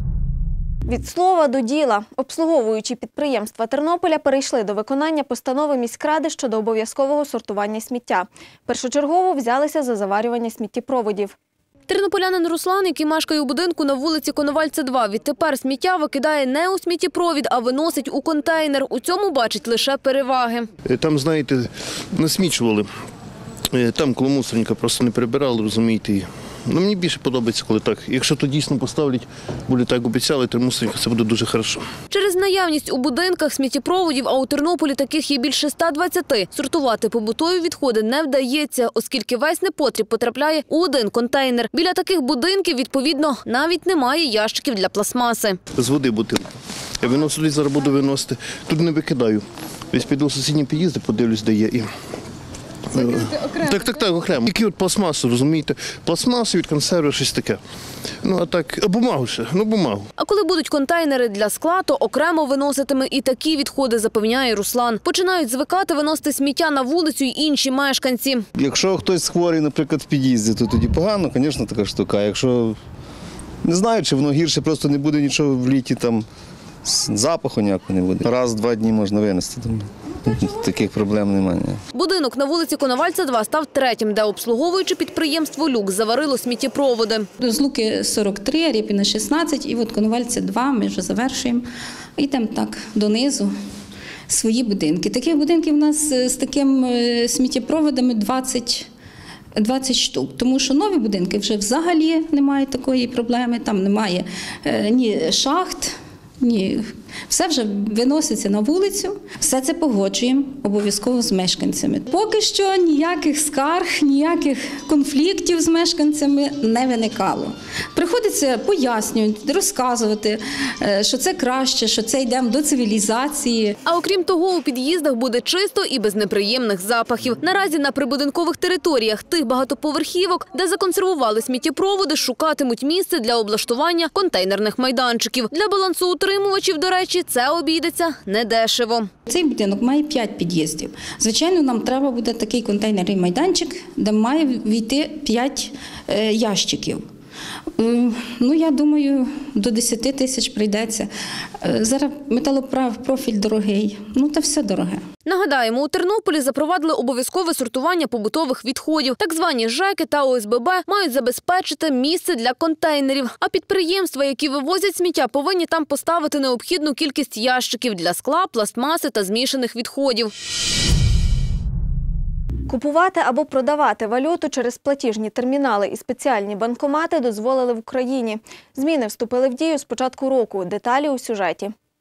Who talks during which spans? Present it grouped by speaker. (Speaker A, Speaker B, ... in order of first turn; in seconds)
Speaker A: 0.9-11.3, 172.7-181.7
Speaker B: 11.9-20.7, 32.1-45.6, 60.2-68.5, 81.9-87.3, 123.9-139.1, 155.2-170.3
Speaker C: 20.9-22.9, 23.7-31.9, 45.8-46.5, 47.0-51.9, 52.9-57.6, 58.2-60.0
Speaker D: 68.6-72.8, 73.7-76.2, 76.8-81.8
Speaker E: 87.4-91.7, 92.2-93.5, 94.3-98.9, 99.6-123.7, 139.3-147.0, 147.8-151.1, 151.6-155.0